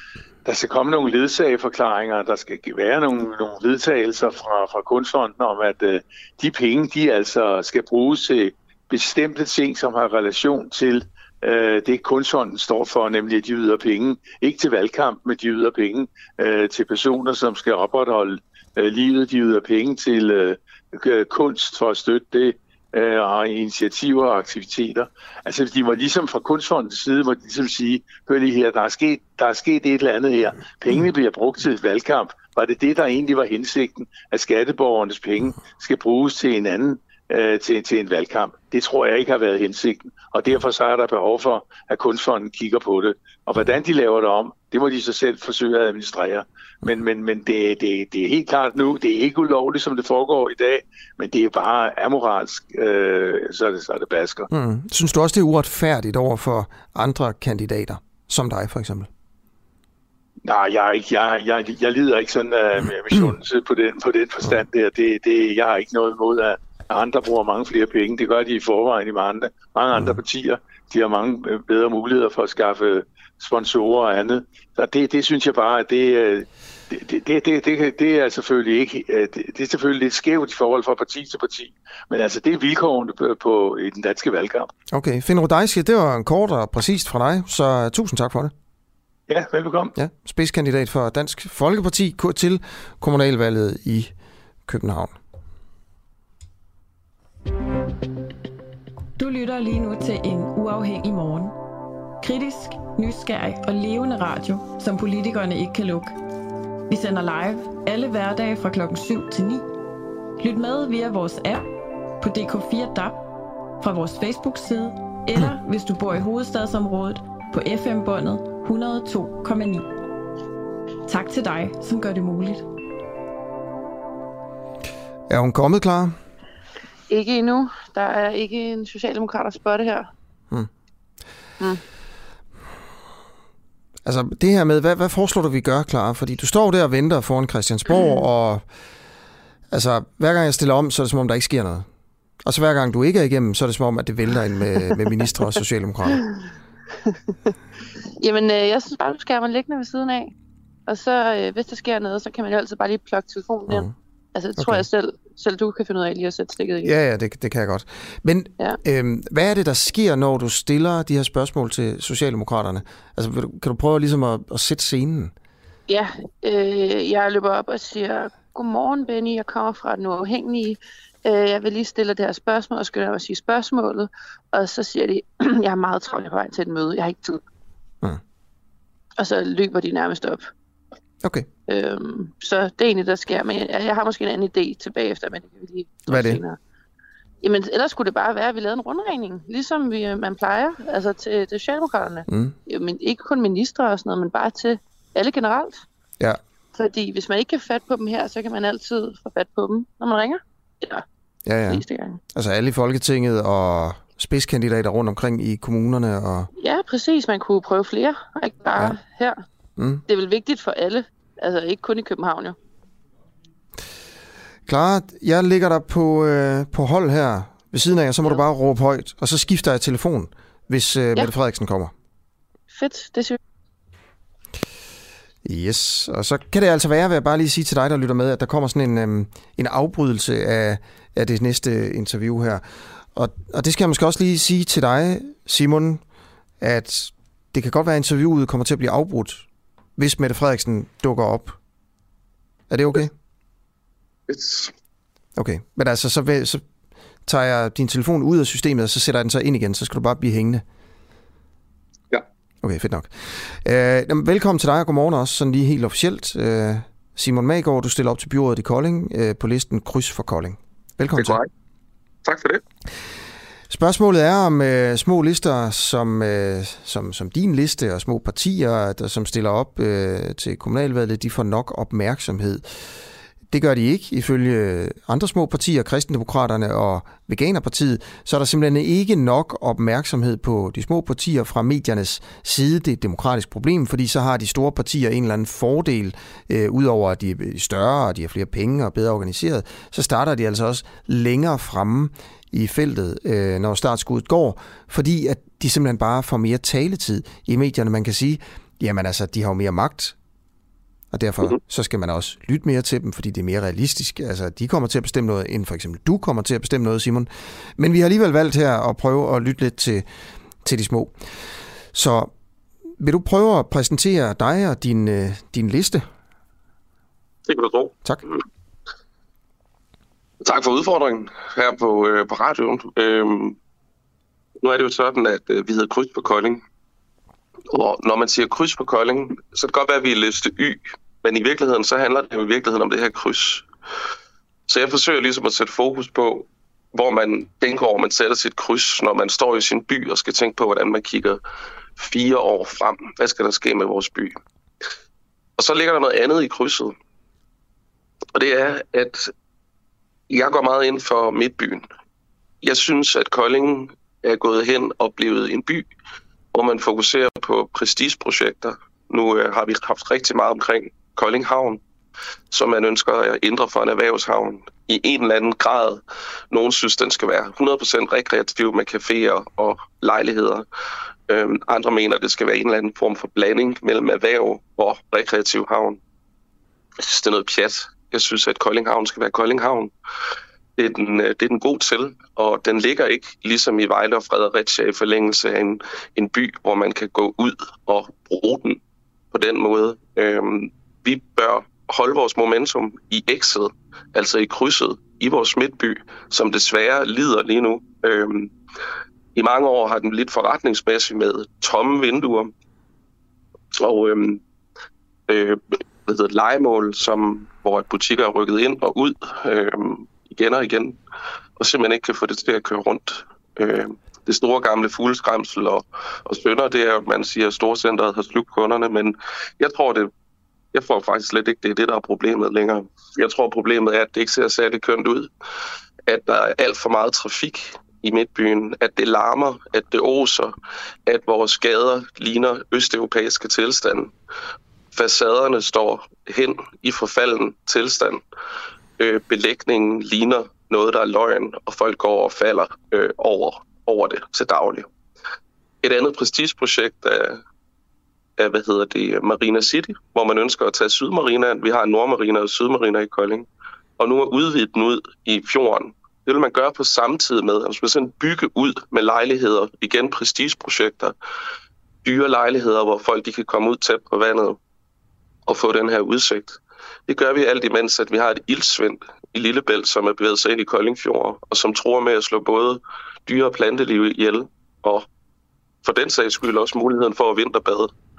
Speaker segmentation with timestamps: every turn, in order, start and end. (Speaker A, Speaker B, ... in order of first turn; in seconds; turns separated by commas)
Speaker A: 0.4-54.5, Speaker B: 54.5-59.1, Speaker A: 60.4-84.7, Speaker B: 84.9-88.5, Speaker A: 89.3-89.9, Speaker B: 90.0-94.1, Speaker B: 94.7-95.1, Speaker C: 99.2-101.5, Speaker C: 102.2-106.1, Speaker C: 106.9-109.7, Speaker C: 110.4-111.7, Speaker C: 112.2-113.2, Speaker C: 113.8-119.9, Speaker C: 121.1-122.6, Speaker B: 125.3-126.2, Speaker D: 127.1-130.1, Speaker B: 134.0-138.6, Speaker B: 139.7-141.8, Speaker B: 142.4-146.2, Speaker D: 148.2-150.3, Speaker D: 150.9-156.9, Speaker B: 153.7-153.9, Speaker B: 154.6-154.8, Speaker B: 156.8-165.3, Speaker D: 165.9-177.4, Speaker D: 179.2-180.5, Speaker D: 181.7-186.6, Speaker B: 186.1-186.4, Speaker D: 187.4-195.8, Speaker B: 192.3-192.6, Speaker D: 196.7-201.0, Speaker B: 201.4-201.8, Speaker D: 201.7-202.2, Speaker B: 202.3-206.5, Speaker D: 206.6-209.4, Speaker B: 209.8-210.0, Speaker D: 210.1-212.6, Speaker B: 214.7-221.9, Speaker D: 222.7-223.4, Speaker B: 225.4-232.6, Speaker B: 233.1-236.0, Speaker B: 236.6-239.4, Speaker B: 240.0-241.6, Speaker B: 242.7-243.1, Speaker E: 244.3-244.7, Speaker B: 245.4-246.6, Speaker B: 247.2-250.6, Speaker B: 252.6-261.4, Speaker E: 261.1-261.5, Speaker E: 262.2-262.6, Speaker B: 263.7-272.9, Speaker B: 273.5-300.1, Speaker B: 301.1-310.0, Speaker B: 310.6-311.2, Speaker B: 311.9-312.3, Speaker B: 313.0-316.1, Speaker E: 317.4-318.4, Speaker E: 320.4-323.6, Speaker E: 324.6-326.6, Speaker E: 327.7-333.6, Speaker E: 334.7-341.4, Speaker E: 342.0-344.4, Speaker E: 345.6-346.9, Speaker E: 348.3-349.3, Speaker E: 350.3-351.9, Speaker E: 352.6-355.9, Speaker E: 356.5-361.8, Speaker E: 362.5-370.6, Speaker E: 371.3-376.0, Speaker E: 377.0-379.9, Speaker E: 380.8-388.8, Speaker E: 389.3-398.5, Speaker E: 399.3-402.5, Speaker E: 403.8-404.4, Speaker E: 405.3-411.0, Speaker E: 411.6-420.1, Speaker E: 420.7-425.3, Speaker E: 426.1-430.5, Speaker E: 431.1-434.1, Speaker E: 434.9-438.2, Speaker E: 439.0-444.9, Speaker E: 445.8-447.4, Speaker E: 448.4-453.4, Speaker E: 454.0-461.1, Speaker E: 462.0-464.6, Speaker E: 465.5-475.1, Speaker E: 475.8-477.9